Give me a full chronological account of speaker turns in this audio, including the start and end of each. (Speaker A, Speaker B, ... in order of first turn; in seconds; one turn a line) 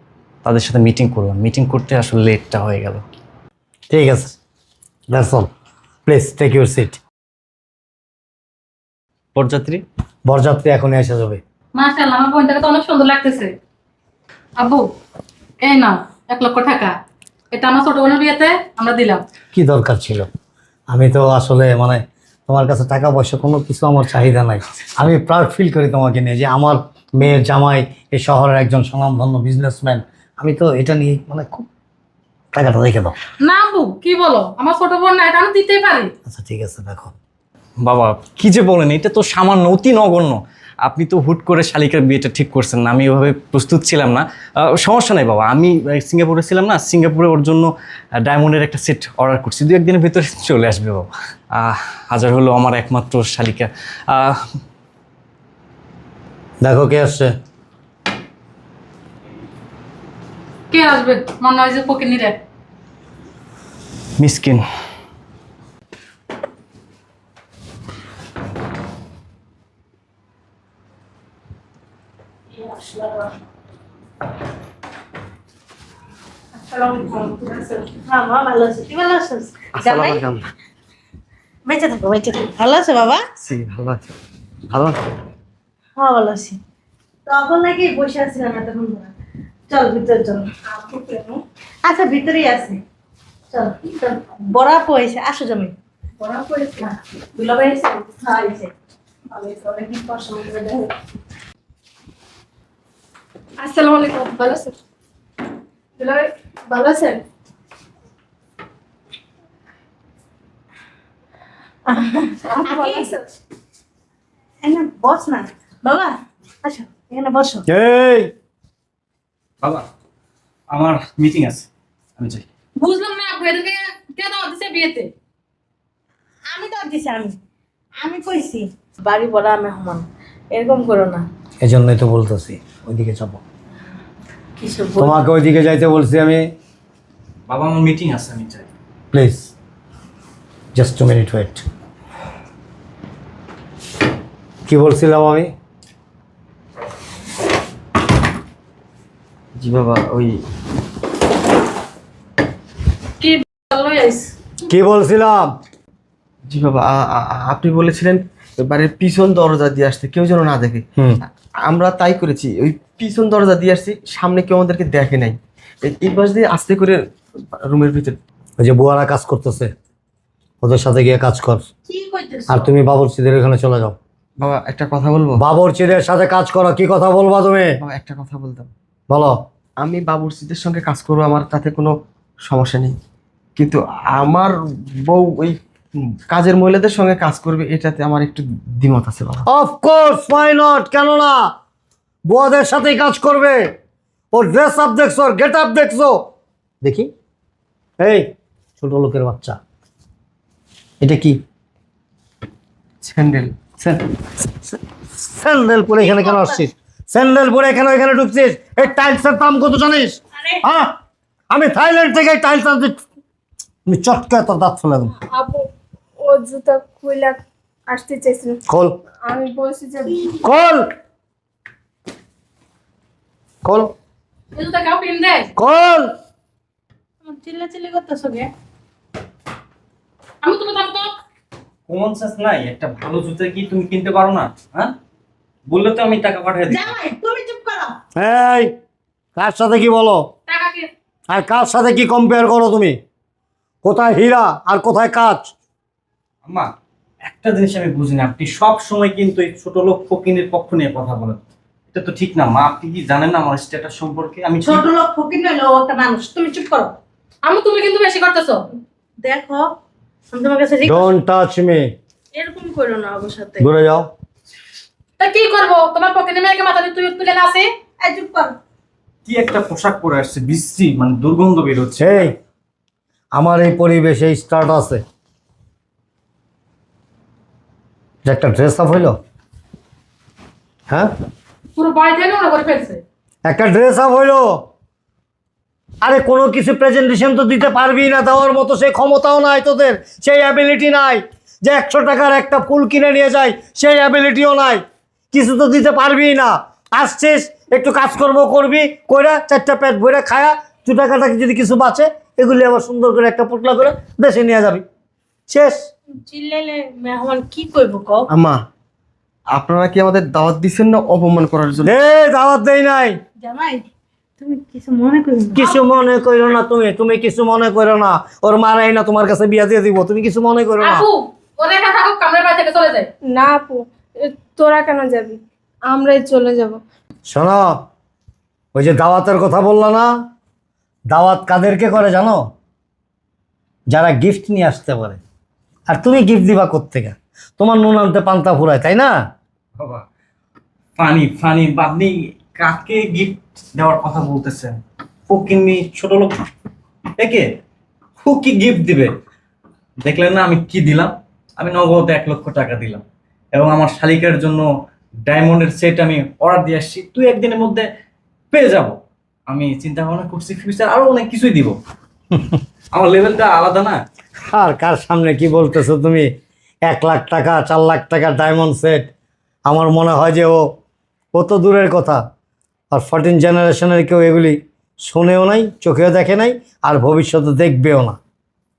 Speaker A: 0.4-3.0
Speaker B: 3.9-4.4
Speaker B: 5.1-5.5
Speaker B: 6.0-7.0
Speaker A: 9.3-9.8
Speaker B: 10.2-11.4
Speaker C: 11.8-13.5
Speaker C: 14.6-14.8
Speaker C: 15.6-16.9
Speaker C: 17.5-19.2
Speaker B: 19.5-20.2
Speaker B: 20.9-31.6
Speaker B: 32.5-33.1
Speaker C: 33.4-36.1
Speaker B: 36.3-37.1
Speaker A: 37.8-44.2
Speaker A: 44.8-47.7
Speaker A: 48.2-54.4
Speaker B: 56.6-57.3
Speaker C: 60.7-62.4
Speaker A: 64.2-64.6
Speaker D: 72.5-73.3
Speaker E: 76.7-77.8
Speaker D: 77.0-80.2
Speaker F: 79.8-80.4
Speaker D: 81.6-83.2
Speaker F: 83.4-84.1
Speaker F: 84.7-85.0
Speaker D: 86.0-86.6
Speaker D: 87.2-89.1
Speaker D: 89.7-92.8
Speaker D: 93.5-95.7
Speaker E: 96.2-96.9
Speaker D: 97.3-98.7
Speaker E: 99.3-100.9
Speaker D: 99.9-100.8
Speaker E: 103.6-104.7
Speaker E: 106.0-107.2
Speaker D: 111.9-113.1
Speaker E: 112.5-113.3
Speaker D: 114.6-117.6
Speaker B: 117.7-118.3
Speaker A: 120.7-122.4
Speaker C: 122.8-125.1
Speaker D: 126.5-127.3
Speaker D: 128.0-131.3
Speaker B: 131.6-133.4
Speaker D: 134.6-135.2
Speaker B: 135.0-136.4
Speaker A: 137.5-138.7
Speaker B: 139.1-139.5
Speaker B: 140.7-141.6
Speaker B: 144.7-145.5
Speaker F: 149.6-150.4
Speaker C: 153.2-154.3
Speaker B: 154.7-155.5
Speaker F: 156.5-160.8
Speaker F: 161.6-167.0
Speaker F: 167.6-168.1
Speaker B: 168.6-169.7
Speaker B: 170.6-171.7
Speaker D: 171.8-172.7
Speaker B: 172.5-174.0
Speaker F: 174.4-175.4
Speaker B: 175.4-177.8
Speaker F: 177.8-178.7
Speaker B: 179.1-179.3
Speaker F: 179.8-182.9
Speaker F: 183.6-185.6
Speaker F: 186.3-189.4
Speaker B: 189.4-191.4
Speaker B: 192.3-193.6
Speaker B: 194.3-196.2
Speaker B: 196.8-197.1
Speaker B: 198.0-199.6
Speaker B: 201.0-201.4
Speaker F: 203.0-203.8
Speaker B: 204.6-210.9
Speaker D: 206.0-206.6
Speaker D: 210.3-210.6
Speaker B: 211.5-213.0
Speaker B: 213.8-215.1
Speaker E: 215.2-215.7
Speaker E: 216.2-218.6
Speaker B: 218.7-219.0
Speaker E: 219.2-220.3
Speaker B: 220.4-220.9
Speaker B: 223.6-223.9
Speaker C: 224.5-225.5
Speaker B: 225.6-226.1
Speaker D: 227.2-228.5
Speaker C: 230.4-231.1
Speaker A: 231.9-234.9
Speaker A: 235.7-236.9
Speaker D: 236.7-238.0
Speaker B: 238.2-238.7
Speaker B: 239.3-240.2
Speaker C: 240.5-240.9
Speaker B: 241.3-243.0
Speaker B: 243.8-245.5
Speaker A: 247.2-254.9
Speaker D: 254.6-256.9
Speaker C: 257.4-258.6
Speaker D: 259.2-259.7
Speaker D: 260.3-261.1
Speaker B: 260.8-261.9
Speaker D: 262.3-263.7
Speaker B: 263.6-264.1
Speaker C: 265.2-267.7
Speaker D: 268.0-268.6
Speaker A: 269.2-272.3
Speaker B: 272.0-272.4
Speaker B: 273.3-275.0
Speaker B: 278.2-279.2
Speaker C: 281.8-283.0
Speaker B: 283.4-284.6
Speaker B: 286.0-304.8
Speaker B: 305.5-305.9
Speaker D: 306.1-308.3
Speaker F: 308.3-308.6
Speaker F: 309.5-311.9
Speaker B: 311.8-313.2
Speaker D: 313.4-313.9
Speaker D: 314.4-315.8
Speaker B: 315.5-321.1
Speaker C: 320.8-323.1
Speaker E: 323.2-326.8
Speaker B: 327.2-327.7
Speaker B: 328.7-330.1
Speaker B: 331.1-332.4
Speaker B: 333.9-335.2
Speaker B: 335.9-339.1
Speaker A: 339.8-340.0
Speaker A: 341.0-344.8
Speaker A: 345.3-346.4
Speaker A: 347.2-347.4
Speaker A: 348.2-349.1
Speaker A: 350.0-353.0
Speaker A: 353.5-354.6
Speaker A: 355.2-357.9
Speaker A: 358.5-359.0
Speaker A: 359.5-361.8
Speaker A: 362.9-364.0
Speaker B: 364.5-366.3
Speaker B: 366.9-369.1
Speaker B: 369.7-370.6
Speaker B: 371.3-372.2
Speaker B: 372.9-378.2